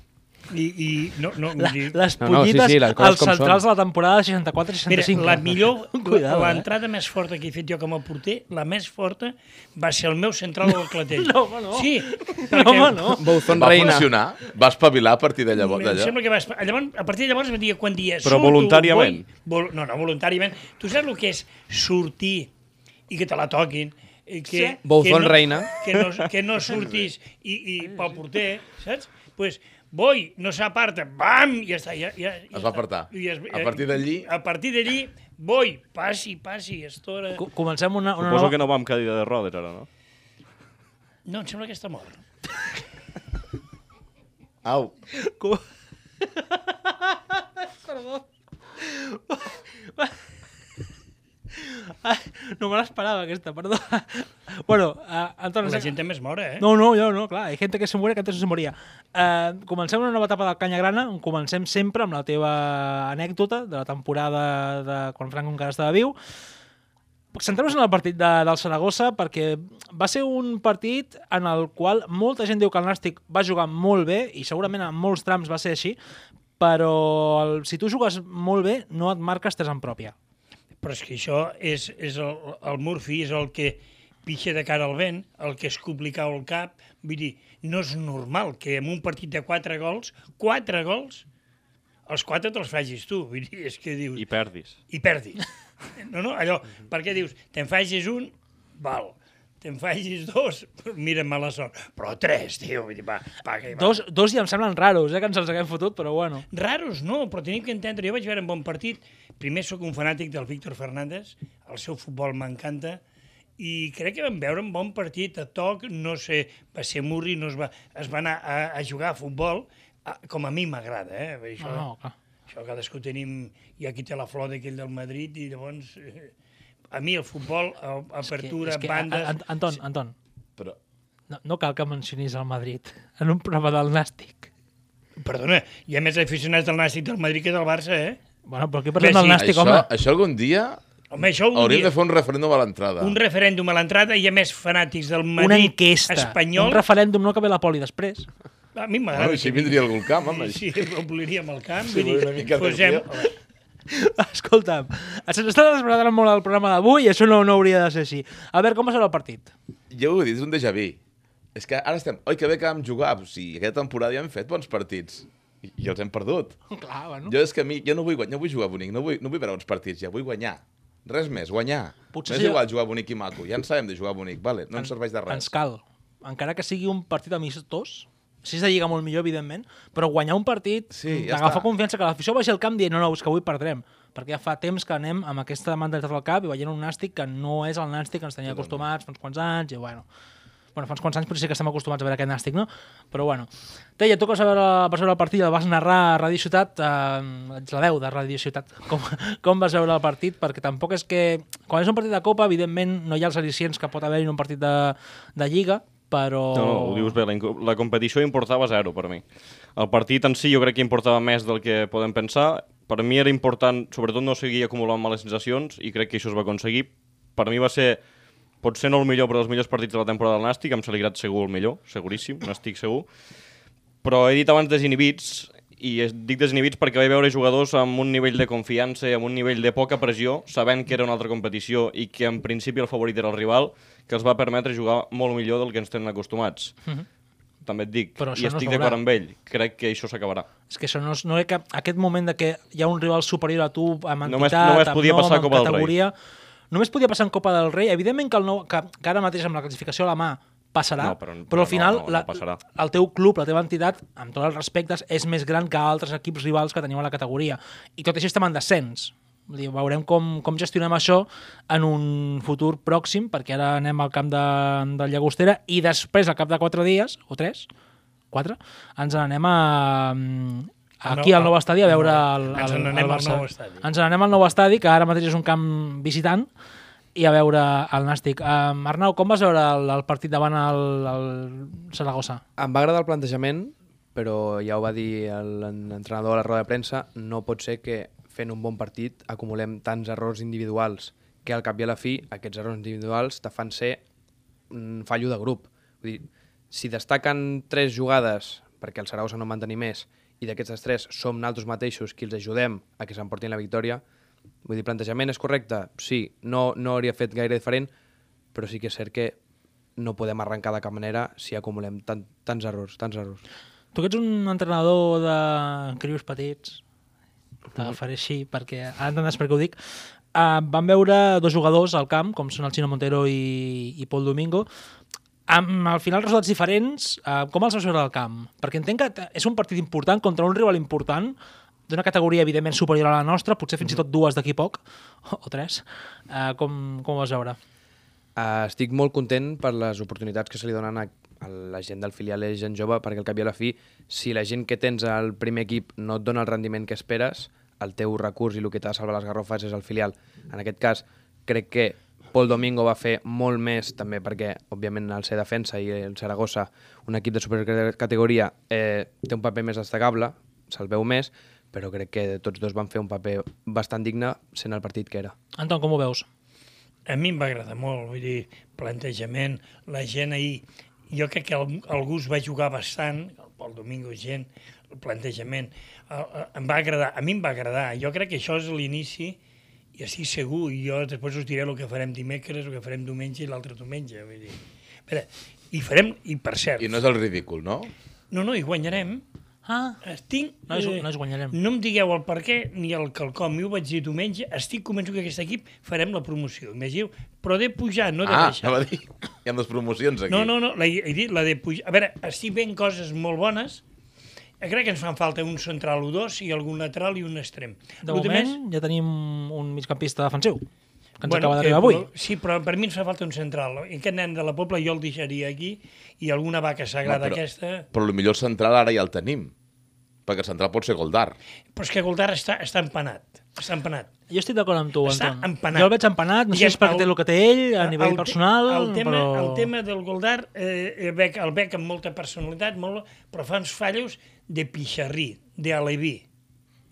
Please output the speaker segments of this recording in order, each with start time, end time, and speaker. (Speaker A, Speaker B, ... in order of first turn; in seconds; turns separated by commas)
Speaker A: 0.5-2.0, Speaker B: 1.6-6.7, Speaker C: 2.2-3.6, Speaker A: 4.9-13.3, Speaker B: 10.7-13.5, Speaker C: 13.1-14.1, Speaker D: 13.5-16.1, Speaker A: 15.6-22.5, Speaker E: 18.2-19.3, Speaker A: 23.1-37.5, Speaker B: 24.5-24.8, Speaker C: 24.8-25.7, Speaker D: 32.5-34.3, Speaker B: 37.4-38.5, Speaker E: 38.2-39.9, Speaker A: 41.3-42.2, Speaker D: 44.6-45.0, Speaker B: 45.1-45.6, Speaker B: 46.2-48.2, Speaker B: 48.8-50.1, Speaker B: 51.6-56.0, Speaker A: 55.6-56.7, Speaker B: 56.6-66.2, Speaker B: 67.3-76.0, Speaker B: 76.6-80.1, Speaker A: 80.8-91.2, Speaker A: 92.1-94.2, Speaker E: 94.2-94.8, Speaker A: 94.9-104.0, Speaker B: 103.7-106.5, Speaker A: 106.5-113.0, Speaker A: 113.6-121.9, Speaker B: 121.6-122.1, Speaker A: 122.5-126.3, Speaker A: 126.9-129.4, Speaker B: 128.2-130.2, Speaker B: 131.3-134.5, Speaker A: 135.2-138.2, Speaker B: 138.5-139.9, Speaker A: 139.0-139.4, Speaker D: 139.4-140.8, Speaker A: 141.1-141.9, Speaker D: 141.5-143.2, Speaker A: 143.0-146.8, Speaker B: 145.4-148.3, Speaker A: 148.8-153.4, Speaker D: 149.1-151.0, Speaker D: 151.8-153.1, Speaker B: 153.9-159.5, Speaker D: 159.9-161.0, Speaker D: 161.6-166.6, Speaker B: 166.7-167.3, Speaker D: 167.3-175.5, Speaker B: 172.1-172.6, Speaker B: 174.8-190.1, Speaker D: 180.9-181.7, Speaker D: 188.5-188.8, Speaker B: 190.8-207.2, Speaker E: 206.5-209.2, Speaker E: 209.8-218.0, Speaker E: 218.6-223.1, Speaker E: 224.0-236.8, Speaker E: 237.7-240.5, Speaker B: 238.2-239.0, Speaker B: 240.7-246.1, Speaker E: 244.2-245.9, Speaker B: 246.7-267.7, Speaker E: 251.0-252.6, Speaker B: 268.3-276.5, Speaker A: 271.1-273.9, Speaker B: 277.1-282.4, Speaker C: 282.6-294.0, Speaker C: 294.7-304.0, Speaker C: 304.6-307.9, Speaker C: 308.5-309.4, Speaker C: 310.0-313.4, Speaker B: 313.9-316.8, Speaker B: 317.7-319.8, Speaker B: 320.3-324.7, Speaker B: 325.5-331.4, Speaker B: 331.9-337.6, Speaker C: 338.4-365.3, Speaker B: 365.6-366.3, Speaker A: 367.1-379.4, Speaker A: 379.9-387.0, Speaker D: 386.8-387.9, Speaker A: 388.3-389.2, Speaker B: 389.7-390.0, Speaker A: 390.0-398.8, Speaker B: 390.7-391.6, Speaker D: 398.2-400.5, Speaker A: 400.3-403.8, Speaker A: 404.6-408.6, Speaker B: 408.0-410.7, Speaker B: 411.2-412.1, Speaker A: 411.2-417.9, Speaker D: 417.1-417.4, Speaker D: 417.9-419.5, Speaker D: 420.3-421.4, Speaker A: 421.8-424.1, Speaker B: 424.3-429.7, Speaker A: 425.0-425.9, Speaker A: 426.5-427.1, Speaker A: 427.8-436.2